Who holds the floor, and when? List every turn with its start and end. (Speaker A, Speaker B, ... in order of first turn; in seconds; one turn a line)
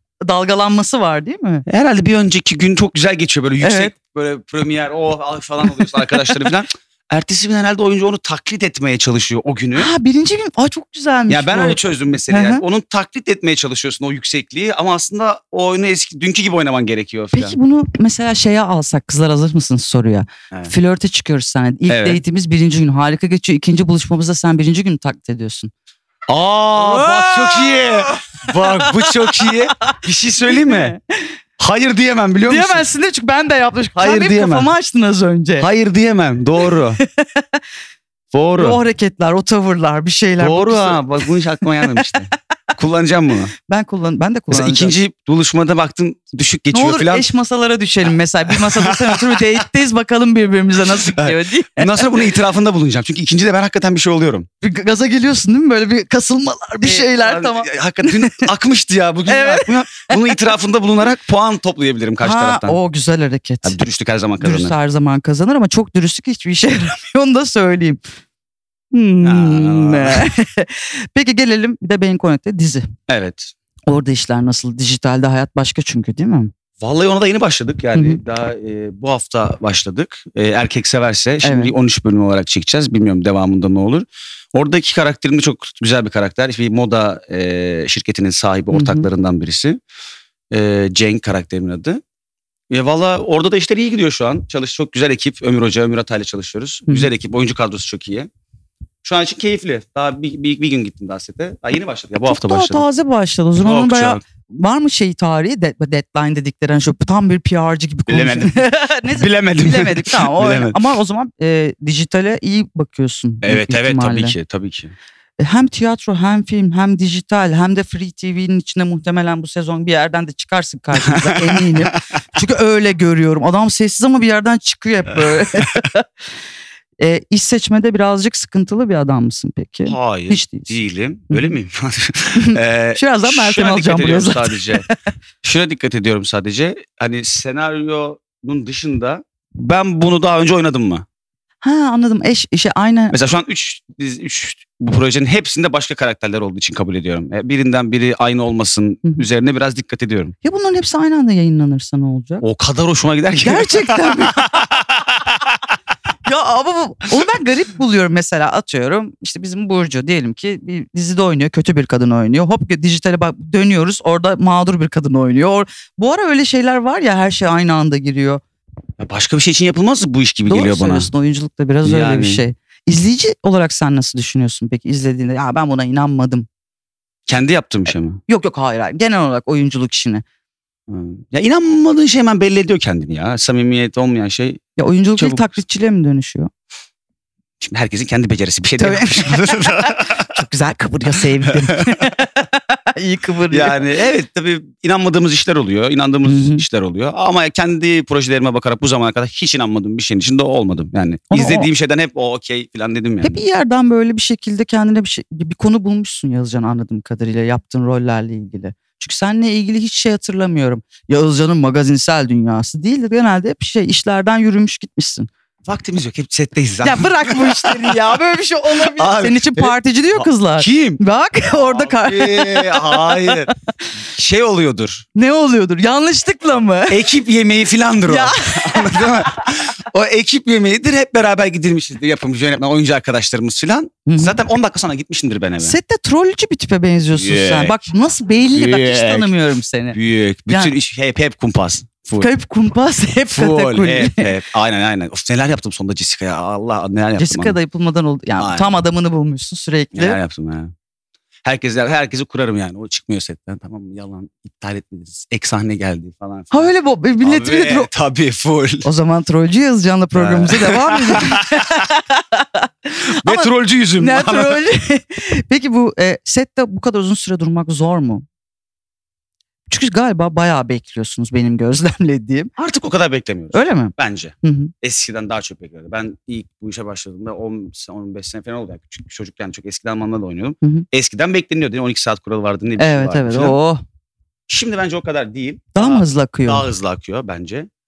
Speaker A: 0.2-1.7
Speaker B: 1.7-9.9
Speaker A: 3.6-3.9
Speaker A: 5.7-6.5
Speaker A: 9.8-12.6
Speaker B: 11.3-17.6
Speaker A: 17.3-25.7
Speaker B: 21.9-22.2
Speaker B: 26.3-30.9
Speaker A: 26.8-29.9
Speaker A: 30.5-31.3
Speaker B: 31.6-32.9
Speaker A: 32.5-35.7
Speaker B: 34.0-34.7
Speaker B: 35.6-37.0
Speaker A: 36.6-37.6
Speaker B: 38.3-38.8
Speaker A: 38.6-42.2
Speaker B: 40.4-43.5
Speaker A: 43.6-45.0
Speaker B: 44.5-47.3
Speaker A: 46.7-52.3
Speaker B: 48.6-49.2
Speaker B: 51.1-54.5
Speaker A: 54.6-58.5
Speaker B: 56.8-62.8
Speaker A: 59.3-60.4
Speaker A: 62.2-63.8
Speaker B: 63.6-64.8
Speaker A: 64.4-68.0
Speaker A: 68.9-72.9
Speaker B: 69.2-70.3
Speaker B: 73.1-73.5
Speaker A: 73.9-76.5
Speaker B: 76.8-89.8
Speaker A: 78.0-78.2
Speaker A: 81.4-81.7
Speaker A: 88.7-89.1
Speaker B: 90.5-92.0
Speaker B: 92.7-98.3
Speaker B: 99.0-102.8
Speaker A: 102.3-114.4
Speaker B: 103.6-104.2
Speaker B: 108.1-110.8
Speaker B: 113.4-114.9
Speaker A: 115.4-126.1
Speaker B: 121.1-122.0
Speaker A: 127.0-130.7
Speaker B: 129.9-134.9
Speaker A: 132.4-134.9
Speaker B: 135.4-141.1
Speaker A: 141.6-143.2
Speaker B: 143.1-150.3
Speaker A: 150.4-152.4
Speaker B: 152.4-155.3
Speaker A: 153.4-154.6
Speaker A: 156.2-168.4
Speaker B: 169.0-171.1
Speaker A: 170.5-176.5
Speaker B: 171.8-172.4
Speaker B: 177.3-178.2
Speaker A: 178.3-180.2
Speaker B: 180.9-184.6
Speaker A: 184.8-186.5
Speaker B: 185.2-185.6
Speaker B: 187.6-190.3
Speaker A: 188.8-193.8
Speaker B: 191.5-191.9
Speaker B: 193.5-203.4
Speaker A: 196.2-196.6
Speaker A: 201.3-201.7
Speaker A: 203.2-215.3
Speaker B: 215.7-217.9
Speaker A: 216.8-223.4
Speaker B: 219.0-223.5
Speaker B: 224.1-225.1
Speaker A: 225.1-227.1
Speaker B: 226.9-235.8
Speaker A: 228.1-229.2
Speaker A: 234.1-234.4
Speaker A: 235.6-240.0
Speaker B: 237.2-237.8
Speaker B: 238.6-239.3
Speaker B: 239.9-242.3
Speaker A: 242.2-244.3
Speaker B: 243.3-247.6
Speaker A: 247.2-250.2
Speaker B: 248.4-248.7
Speaker B: 249.9-250.7
Speaker B: 251.4-258.9
Speaker A: 256.5-257.9
Speaker A: 258.8-268.2
Speaker B: 260.1-261.8
Speaker B: 263.2-264.6
Speaker A: 269.7-272.5
Speaker B: 272.6-283.6
Speaker A: 273.5-274.7
Speaker A: 282.8-283.8
Speaker B: 284.5-287.7
Speaker A: 285.8-286.6